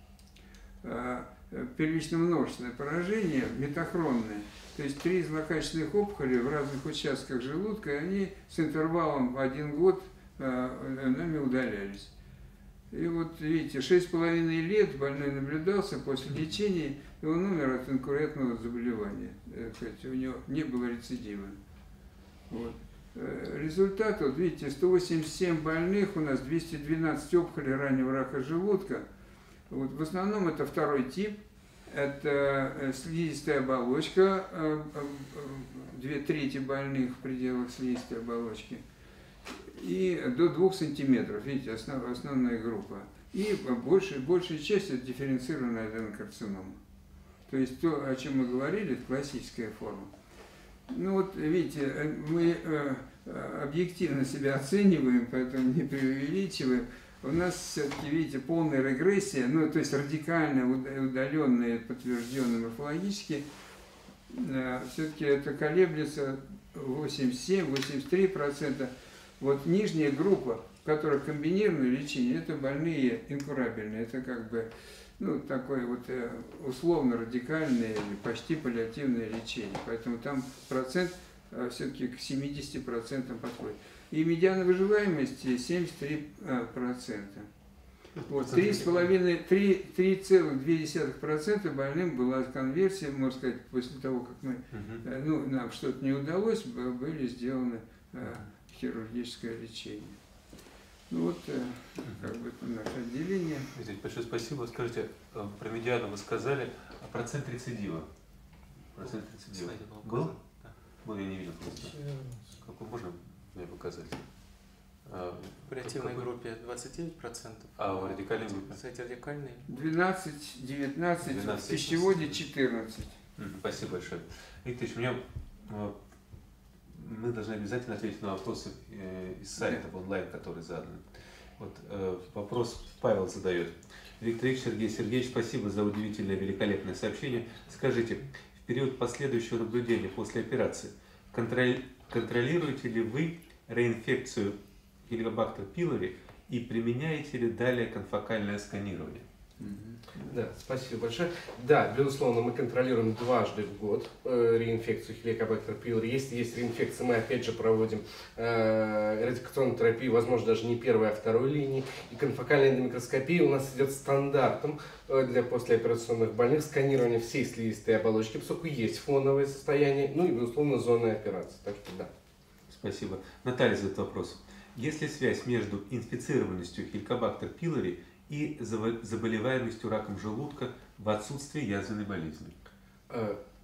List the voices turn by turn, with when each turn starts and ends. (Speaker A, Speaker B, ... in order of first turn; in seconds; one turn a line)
Speaker A: 0.8-12.1
Speaker A: 12.9-21.6
Speaker A: 22.5-29.1
Speaker A: 29.7-38.8
Speaker A: 39.5-46.8
Speaker A: 47.5-50.1
Speaker A: 50.9-63.5
Speaker A: 64.3-87.5
Speaker B: 88.2-89.1
Speaker A: 88.3-100.2
Speaker B: 94.7-95.0
Speaker A: 101.1-103.7
Speaker B: 103.7-108.1
Speaker B: 109.0-110.4
Speaker C: 109.0-110.8
Speaker B: 111.0-111.9
Speaker C: 111.9-112.4
Speaker B: 112.6-114.3
Speaker B: 115.1-116.3
Speaker C: 115.6-119.7
Speaker B: 117.8-118.8
Speaker A: 119.7-123.2
Speaker B: 121.2-122.3
Speaker B: 123.4-126.0
Speaker B: 126.9-131.1
Speaker B: 131.6-149.3
Speaker A: 149.6-150.3
Speaker D: 150.2-172.1
Speaker B: 172.7-182.6
Speaker D: 183.1-183.4